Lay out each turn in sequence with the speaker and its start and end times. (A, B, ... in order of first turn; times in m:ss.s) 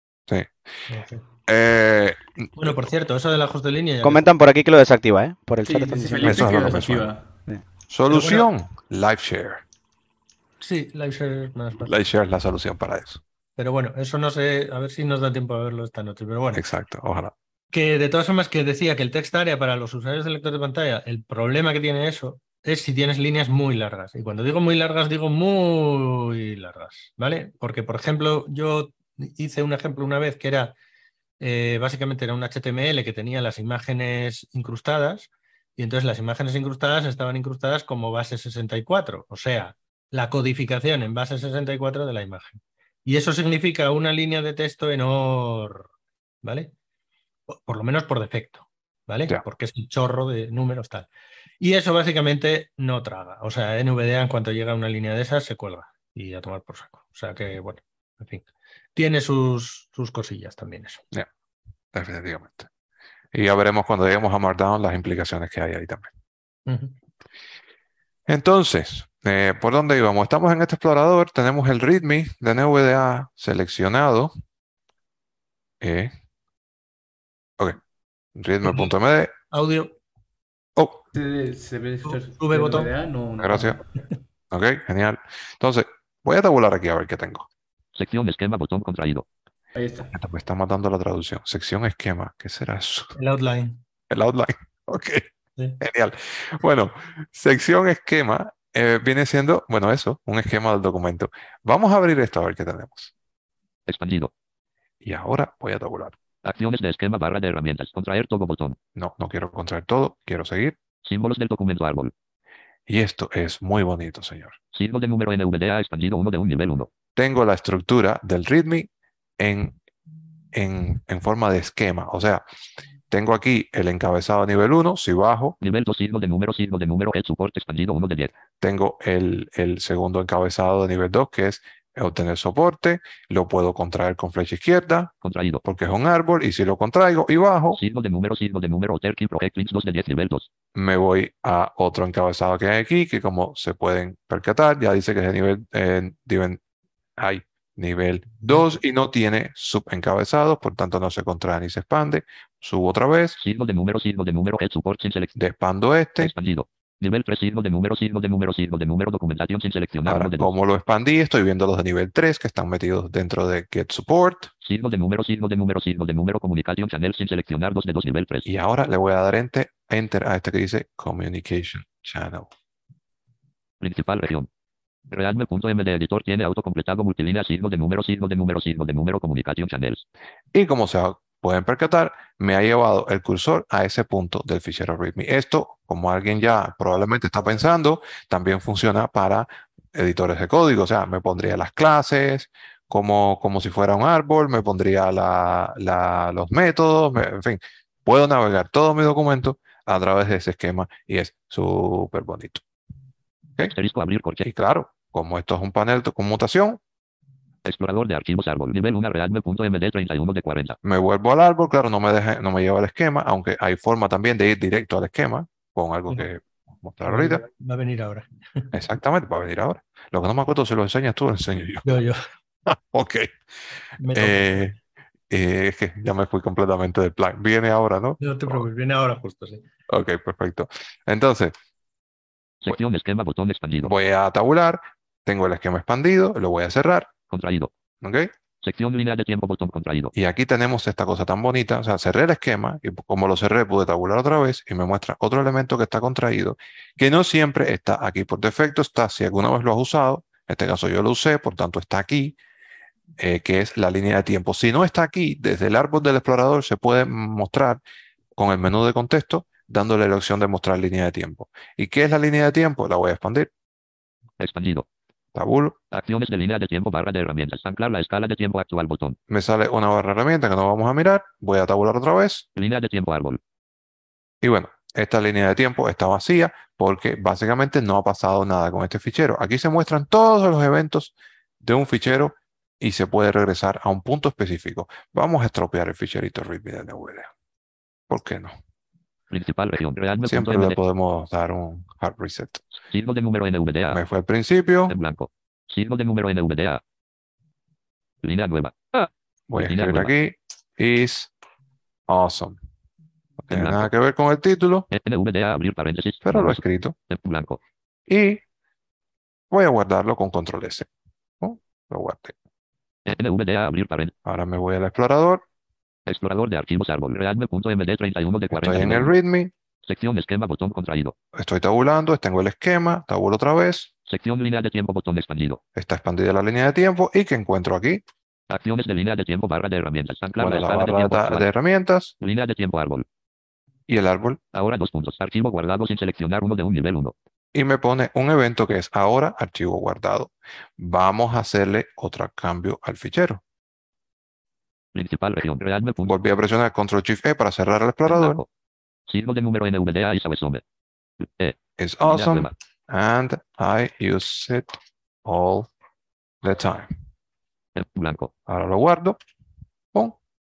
0:00.3-0:00.6 A
0:00.9-0:01.2 B
0:01.5-0:02.8 A
0:02.6-0:04.3 B
0:04.0-0:06.4 C
0:05.6-0:07.4 D
0:06.2-0:07.1 A
0:07.9-0:09.6 A
0:08.1-0:08.5 B
0:10.6-0:11.9 B
0:11.9-0:13.2 A
0:13.6-0:16.6 B
0:16.5-0:17.3 A
0:17.7-0:30.7 B
0:31.4-0:45.9 B
0:46.4-0:46.7 B
0:47.5-0:51.1 B
0:51.6-1:01.0 B
1:01.9-1:02.7 A
1:03.3-1:06.1 A
1:06.7-1:06.9 B
1:08.3-1:14.3 A
1:15.8-1:16.1 A
1:18.4-1:19.3 A
1:19.5-1:20.0 B
1:20.8-1:21.0 A
1:21.1-1:23.8 D
1:22.0-1:22.9 B
1:23.4-1:23.8 A
1:24.5-1:27.5 A
1:28.0-1:29.2 E
1:29.8-1:30.1 D
1:30.1-1:33.2 A
1:33.2-1:33.8 B
1:34.1-1:35.3 A
1:35.8-1:43.1 A
1:43.9-1:44.3 E
1:45.0-1:46.2 A
1:46.4-1:48.8 E
1:49.0-1:50.8 A
1:51.0-1:52.1 E
1:52.9-1:54.6 A
1:54.7-1:56.9 E
1:57.2-1:59.8 A
2:00.5-2:02.4 A
2:03.1-2:05.6 A
2:05.6-2:08.3 E
2:08.6-2:15.1 A
2:15.2-2:15.6 E
2:15.6-2:17.8 A
2:17.7-2:20.5 E
2:20.8-2:26.6 A
2:27.2-2:33.4 A
2:33.4-2:35.4 E
2:35.4-2:36.3 A
2:36.2-2:40.5 E
2:40.1-2:44.5 A
2:44.6-2:48.5 E
2:48.5-2:52.5 A
2:53.8-2:54.5 E
2:55.1-3:00.0 E
3:00.5-3:22.6 A
3:23.8-3:24.5 E
3:24.4-3:26.8 A
3:27.6-3:30.8 E
3:30.8-3:37.4 A
3:37.0-3:38.7 B
3:38.7-3:41.9 A
3:41.8-3:42.2 B
3:42.7-3:43.4 A
3:44.0-3:44.7 B
3:44.1-3:44.8 A
3:45.3-3:48.6 A
3:48.2-3:49.6 B
3:49.9-3:51.5 A
3:52.6-3:53.9 E
3:53.8-3:57.1 A
3:57.3-3:57.7 E
3:58.0-3:58.3 A
3:58.6-4:00.1 E
4:00.2-4:12.4 A
4:13.2-4:17.8 A
4:18.4-4:23.5 A
4:24.4-4:24.9 E
4:25.4-4:25.8 A
4:25.9-4:29.2 E
4:29.3-4:32.5 A
4:32.6-4:33.4 E
4:34.4-4:47.3 A
4:48.1-4:48.5 A
4:49.3-4:50.8 E
4:50.3-4:52.6 A
4:52.8-4:54.0 E
4:53.9-4:55.0 A
4:54.9-4:56.8 E
4:58.2-5:00.1 E
4:59.5-5:01.3 A
5:02.1-5:02.6 A
5:03.4-5:04.9 A
5:03.5-5:03.9 E
5:04.9-5:07.6 E
5:06.3-5:06.9 A
5:08.1-5:08.4 A
5:09.5-5:10.9 A
5:11.4-5:12.4 A
5:13.1-5:14.1 E
5:14.2-5:15.4 A
5:16.1-5:19.1 E
5:18.5-5:19.5 A
5:19.9-5:21.2 E
5:21.4-5:23.9 A
5:24.1-5:25.6 E
5:25.8-5:28.0 A
5:28.5-5:31.5 E
5:30.4-5:32.1 A
5:32.2-5:33.0 E
5:33.9-5:34.4 A
5:34.5-5:37.1 E
5:37.5-5:43.4 A
5:44.9-5:46.2 E
5:46.0-5:48.4 A
5:48.1-5:48.5 E
5:49.1-5:50.6 E
5:51.2-5:52.5 E
5:51.8-5:55.7 A
5:56.4-5:56.9 A
5:57.8-5:58.3 E
5:58.5-5:59.2 A